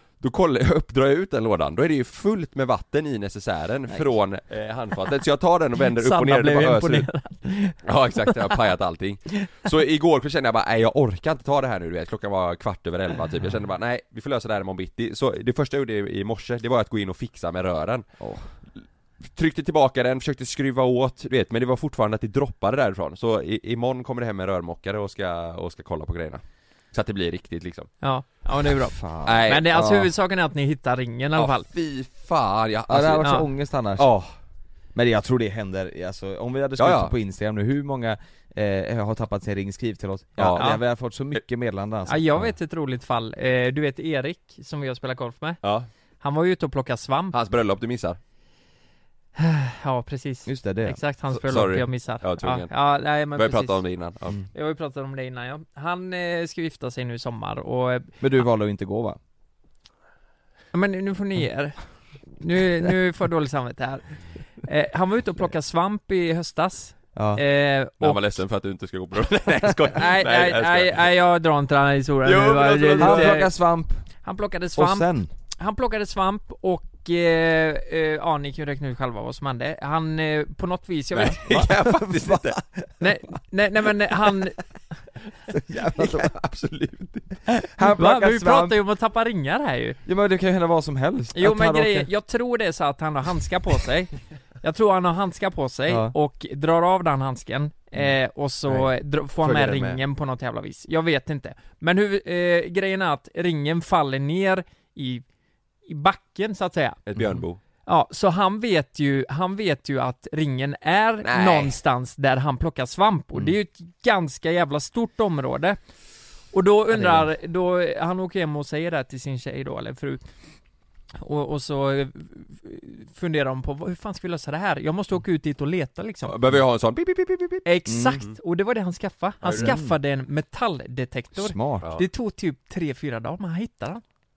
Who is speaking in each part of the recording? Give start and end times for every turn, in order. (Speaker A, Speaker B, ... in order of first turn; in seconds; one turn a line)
Speaker A: 0.2-7.1
Speaker B: 5.9-8.5
Speaker A: 7.8-18.1
Speaker C: 18.2-18.5
Speaker A: 18.8-26.4
Speaker A: 26.9-27.9
Speaker B: 28.0-31.7
Speaker C: 28.9-30.1
Speaker A: 29.2-29.8
Speaker A: 31.4-33.4
Speaker C: 32.9-34.1
Speaker B: 33.2-33.5
Speaker A: 34.0-34.3
Speaker C: 34.9-42.5
Speaker A: 36.8-37.1
Speaker A: 40.4-40.7
Speaker B: 42.1-45.6
Speaker A: 45.6-45.9
Speaker B: 46.2-47.4
Speaker A: 47.3-48.2
Speaker B: 49.4-53.8
Speaker C: 50.5-51.0
Speaker A: 51.3-52.7
Speaker A: 53.4-54.4
Speaker B: 54.5-58.2
Speaker C: 58.2-59.2
Speaker B: 60.7-61.8
Speaker B: 62.3-68.2
Speaker C: 67.1-67.4
Speaker A: 68.0-71.1
Speaker B: 69.9-73.5
Speaker A: 72.2-73.4
Speaker C: 73.0-74.0
Speaker B: 74.2-81.9
Speaker C: 74.8-75.3
Speaker A: 81.1-82.6
Speaker C: 81.5-82.9
Speaker B: 83.0-84.6
Speaker C: 85.5-86.3
Speaker A: 85.8-87.3
Speaker C: 87.5-88.8
Speaker B: 88.0-90.0
Speaker C: 90.0-92.1
Speaker B: 91.3-105.2
Speaker C: 95.9-96.1
Speaker A: 99.4-100.0
Speaker B: 105.9-107.2
Speaker A: 107.1-107.6
Speaker B: 107.9-115.8
Speaker A: 111.2-111.8
Speaker B: 116.5-120.2
Speaker C: 116.9-117.3
Speaker B: 121.1-126.3
Speaker A: 126.2-127.6
Speaker B: 127.7-134.0
Speaker C: 127.9-128.2
Speaker A: 129.4-129.8
Speaker C: 129.6-130.0
Speaker C: 131.4-131.9
Speaker A: 131.8-132.1